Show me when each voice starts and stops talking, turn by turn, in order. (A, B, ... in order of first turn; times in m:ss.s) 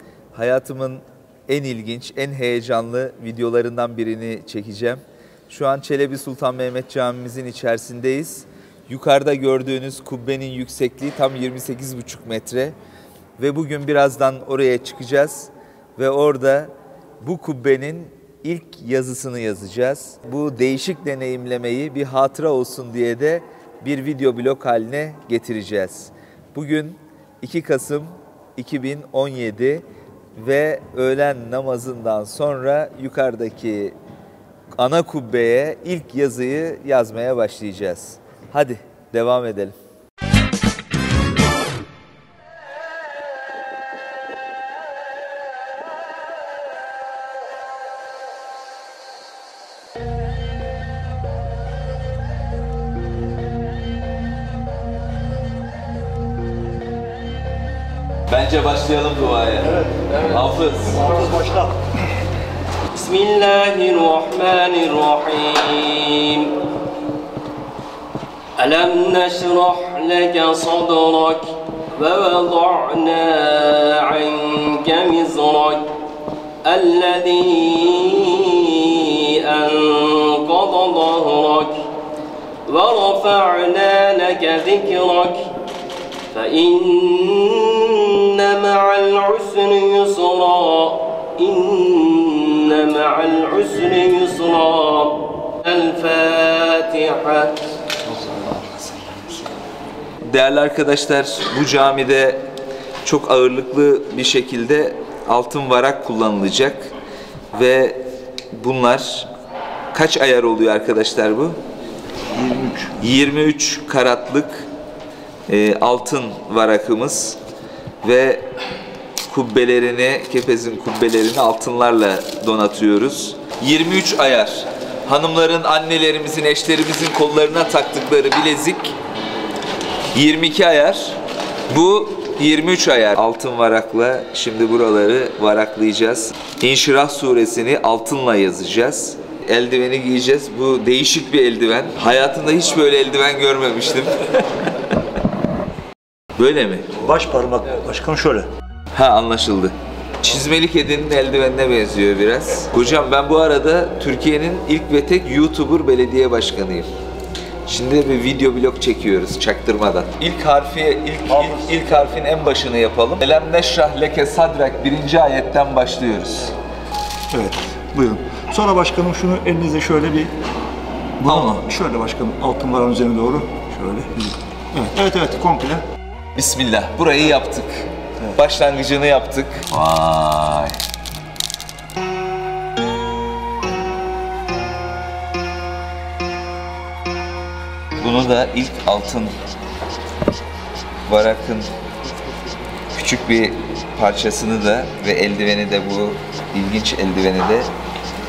0:00.3-0:12.8 A
0:13.4-0:29.8 A
0:30.4-0:34.0 A
0:34.8-0:39.8 A
0:58.3-1:01.2 A
1:01.0-1:01.8 B
1:02.9-1:06.6 C
1:08.6-1:15.9 C
1:16.6-1:21.9 C
1:22.7-1:25.5 C
1:26.3-1:37.6 C
1:38.2-1:38.7 B
1:40.2-1:42.4 A
1:43.0-1:46.9 A
1:47.5-1:49.3 A
1:49.9-1:51.6 A
1:52.3-1:53.0 B
1:53.0-1:54.7 A
1:55.5-1:57.4 A
1:58.0-1:58.5 A
1:59.3-2:09.0 A
2:10.1-2:24.4 A
2:26.4-2:27.0 A
2:27.0-2:28.5 B
2:28.9-2:36.9 A
2:37.7-2:46.5 A
2:41.4-2:41.8 B
2:47.3-2:50.3 B
2:51.2-2:55.8 B
2:51.2-2:51.6 A
2:56.4-3:00.8 A
3:08.0-3:09.3 A
3:11.1-3:11.7 A
3:12.9-3:17.7 A